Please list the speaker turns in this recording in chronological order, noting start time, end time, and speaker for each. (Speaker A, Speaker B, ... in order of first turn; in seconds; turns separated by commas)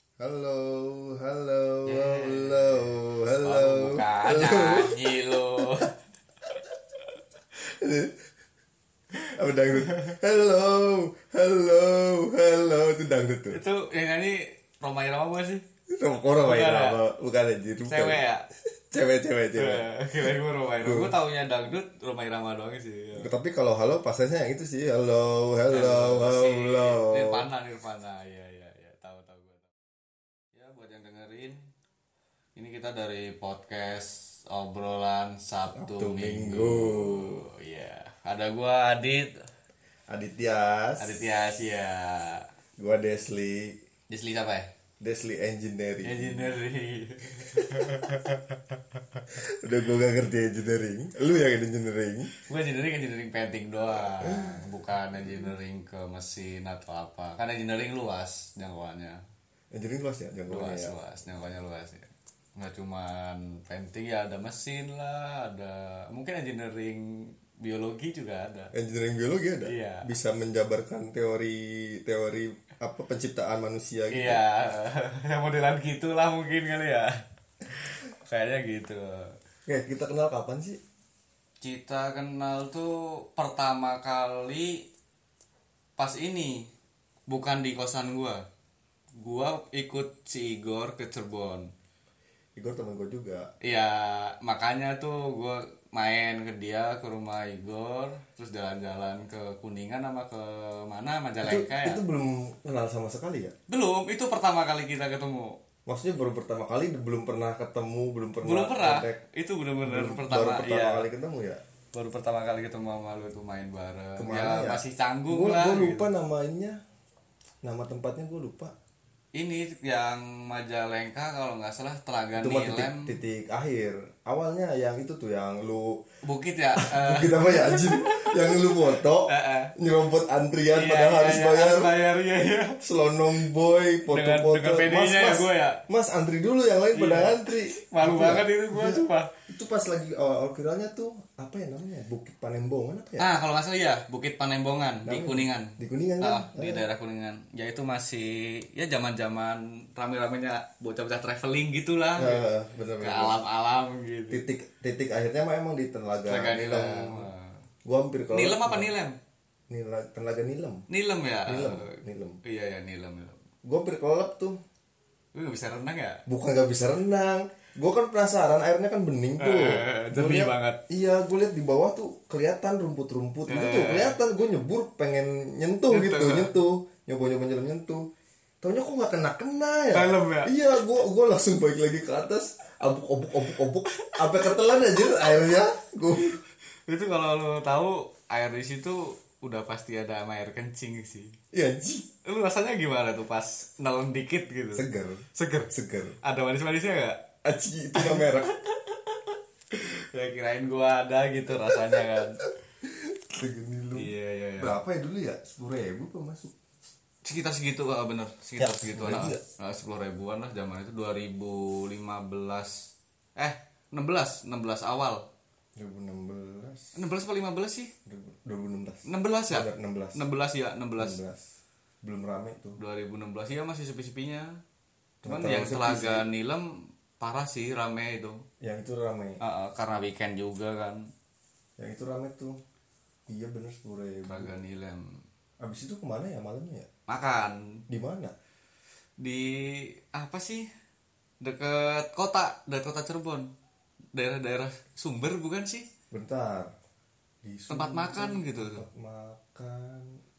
Speaker A: 0.2-5.9, Speaker B: 1.8-6.0, Speaker A: 7.6-8.2, Speaker A: 9.3-13.6, Speaker B: 9.7-10.1, Speaker B: 13.5-15.6, Speaker A: 15.9-18.2, Speaker B: 16.4-17.0, Speaker B: 17.9-18.5, Speaker A: 18.9-20.3, Speaker B: 19.6-23.3, Speaker A: 20.8-21.1, Speaker A: 23.2-27.4, Speaker B: 25.7-29.7, Speaker B: 30.5-31.7, Speaker B: 32.5-39.5, Speaker A: 35.7-37.4, Speaker A: 40.1-41.2, Speaker B: 41.0-42.5, Speaker A: 42.8-43.8, Speaker B: 44.1-44.7, Speaker A: 45.0-46.5, Speaker B: 46.0-48.6, Speaker A: 47.4-48.1, Speaker A: 49.3-52.3, Speaker B: 52.5-59.2, Speaker A: 53.9-55.5, Speaker A: 59.7-61.0, Speaker B: 60.5-68.7, Speaker A: 68.7-74.4, Speaker B: 69.6-70.1, Speaker B: 74.1-79.3, Speaker A: 79.7-80.8, Speaker B: 81.6-84.8, Speaker B: 86.0-86.7, Speaker B: 87.3-88.4, Speaker B: 89.2-91.7, Speaker A: 92.6-93.5, Speaker B: 93.6-102.0, Speaker A: 101.4-103.5, Speaker B: 103.7-105.6, Speaker A: 105.8-109.2, Speaker B: 108.4-111.1, Speaker A: 109.8-111.6, Speaker B: 111.9-116.1, Speaker A: 114.2-116.8, Speaker A: 117.6-118.7, Speaker B: 119.3-123.1, Speaker A: 122.4-126.0, Speaker B: 126.2-129.7, Speaker A: 126.8-131.9, Speaker B: 130.7-132.8, Speaker A: 132.8-143.3, Speaker B: 134.1-135.8, Speaker B: 136.9-139.3, Speaker B: 143.2-152.5, Speaker A: 145.0-146.8, Speaker A: 152.2-153.3, Speaker B: 153.0-154.4, Speaker A: 154.3-157.3, Speaker B: 156.3-157.6, Speaker A: 157.8-158.9, Speaker B: 158.3-159.2, Speaker A: 159.7-160.8, Speaker B: 160.9-163.4, Speaker A: 161.4-162.4, Speaker A: 163.6-164.6, Speaker B: 165.3-166.2, Speaker A: 166.3-178.1, Speaker B: 169.4-170.8, Speaker B: 173.5-174.2, Speaker B: 175.9-176.5, Speaker A: 178.6-186.4, Speaker B: 179.9-180.5, Speaker B: 184.0-185.2, Speaker B: 186.9-191.4, Speaker A: 191.5-192.1, Speaker B: 192.2-197.2, Speaker A: 194.7-196.2, Speaker A: 197.4-198.5, Speaker B: 197.9-202.4, Speaker A: 201.7-202.1, Speaker A: 202.8-206.5, Speaker B: 203.9-204.8, Speaker B: 207.2-215.2, Speaker A: 208.6-209.4, Speaker A: 215.8-217.0, Speaker B: 216.9-217.9, Speaker A: 218.1-220.2, Speaker B: 219.1-221.2, Speaker A: 221.0-221.5, Speaker A: 222.0-222.8, Speaker B: 222.8-224.6, Speaker A: 225.2-226.2, Speaker B: 225.2-228.4, Speaker A: 228.6-229.4, Speaker B: 229.4-231.1, Speaker A: 231.8-232.6, Speaker A: 233.3-234.5, Speaker B: 234.2-235.2, Speaker A: 235.6-236.9, Speaker B: 237.1-237.8, Speaker A: 237.9-238.3, Speaker B: 239.2-240.7, Speaker B: 241.4-243.5, Speaker B: 244.1-245.9, Speaker A: 246.1-246.7, Speaker A: 247.4-250.2, Speaker B: 247.7-248.8